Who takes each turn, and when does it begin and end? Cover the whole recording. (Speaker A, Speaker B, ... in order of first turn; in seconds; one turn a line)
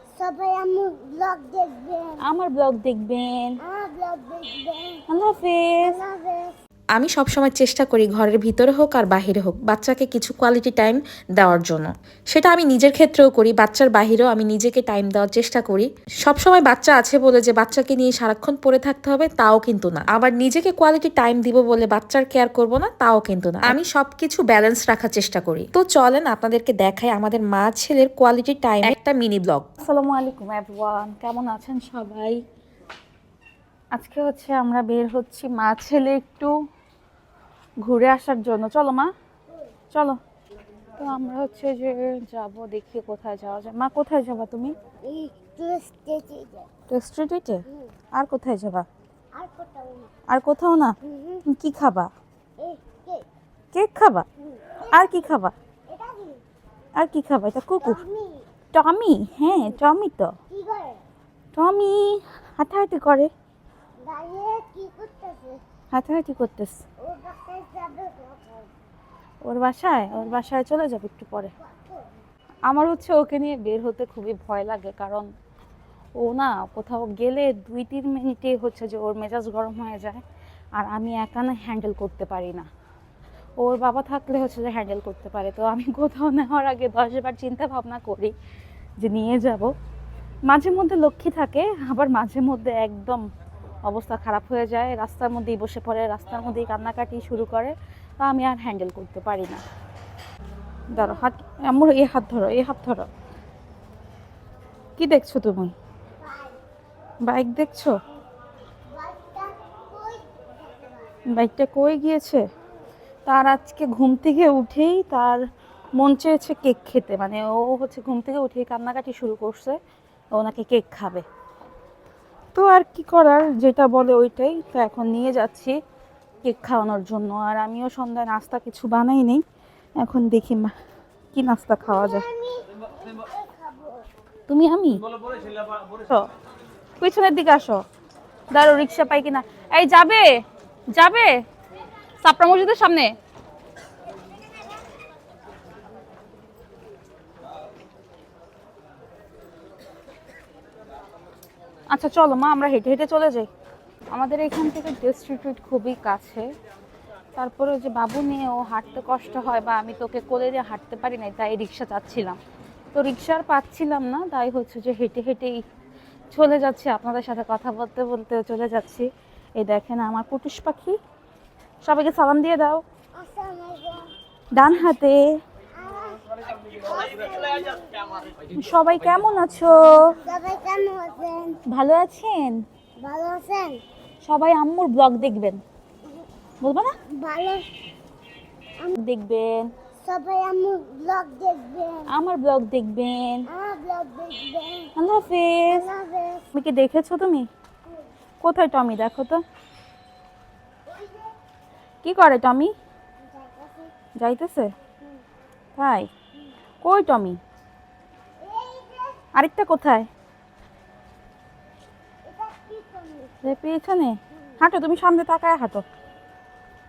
Speaker A: 0.2-2.2
Speaker B: 2.2-3.5
Speaker A: 3.6-5.0
Speaker B: 5.1-6.0
Speaker A: 5.8-6.5
Speaker C: 7.0-29.6
Speaker B: 29.8-32.4
Speaker B: 33.9-36.5
Speaker B: 37.8-39.1
Speaker B: 39.9-40.2
Speaker B: 41.0-44.7
Speaker A: 45.0-46.7
Speaker B: 46.9-47.6
Speaker B: 48.1-48.9
Speaker A: 49.4-50.1
Speaker B: 50.3-52.1
Speaker A: 51.0-51.4
Speaker A: 52.6-53.2
Speaker B: 53.7-54.2
Speaker A: 54.4-55.3
Speaker B: 54.9-55.5
Speaker A: 55.9-56.4
Speaker B: 57.0-58.0
Speaker A: 57.8-58.4
Speaker B: 58.7-60.3
Speaker A: 60.5-61.0
Speaker B: 61.5-63.3
Speaker A: 64.0-65.6
Speaker B: 65.9-66.8
Speaker A: 67.0-68.7
Speaker B: 69.4-71.5
Speaker A: 70.1-70.4
Speaker A: 71.6-72.2
Speaker B: 72.7-75.3
Speaker B: 76.2-80.2
Speaker B: 80.8-82.7
Speaker B: 83.6-88.3
Speaker B: 89.0-89.7
Speaker B: 90.5-93.2
Speaker B: 93.8-99.6
Speaker B: 100.9-103.1
Speaker A: 100.9-101.2
Speaker B: 105.0-105.7
Speaker A: 106.2-106.6
Speaker B: 107.2-107.9
Speaker A: 108.9-111.1
Speaker B: 111.3-112.4
Speaker B: 113.2-115.4
Speaker B: 116.0-119.8
Speaker B: 120.3-121.2
Speaker B: 122.5-125.8
Speaker B: 126.4-129.4
Speaker B: 130.0-130.7
Speaker B: 131.3-132.2
Speaker A: 131.8-134.0
Speaker B: 134.5-135.0
Speaker B: 137.0-137.8
Speaker B: 138.5-140.3
Speaker B: 140.9-141.3
Speaker B: 142.2-143.1
Speaker B: 151.9-153.5
Speaker B: 154.1-156.4
Speaker B: 157.4-162.4
Speaker B: 162.9-165.6
Speaker B: 166.3-170.9
Speaker B: 171.8-172.8
Speaker A: 173.2-174.1
Speaker B: 174.6-175.2
Speaker A: 175.8-178.3
Speaker B: 178.5-180.2
Speaker A: 180.2-181.6
Speaker B: 181.7-182.6
Speaker A: 183.0-183.8
Speaker B: 184.2-185.6
Speaker B: 186.6-186.9
Speaker A: 187.1-187.7
Speaker B: 188.9-189.7
Speaker A: 190.0-192.1
Speaker B: 192.1-193.5
Speaker A: 193.5-194.9
Speaker B: 194.9-195.9
Speaker A: 195.7-196.5
Speaker B: 196.5-197.5
Speaker B: 198.4-199.4
Speaker A: 200.8-201.3
Speaker B: 202.0-202.7
Speaker A: 203.2-203.9
Speaker B: 204.2-204.7
Speaker B: 205.8-206.1
Speaker B: 206.8-207.4
Speaker A: 208.4-209.2
Speaker B: 209.3-210.1
Speaker A: 212.2-213.6
Speaker B: 213.4-215.8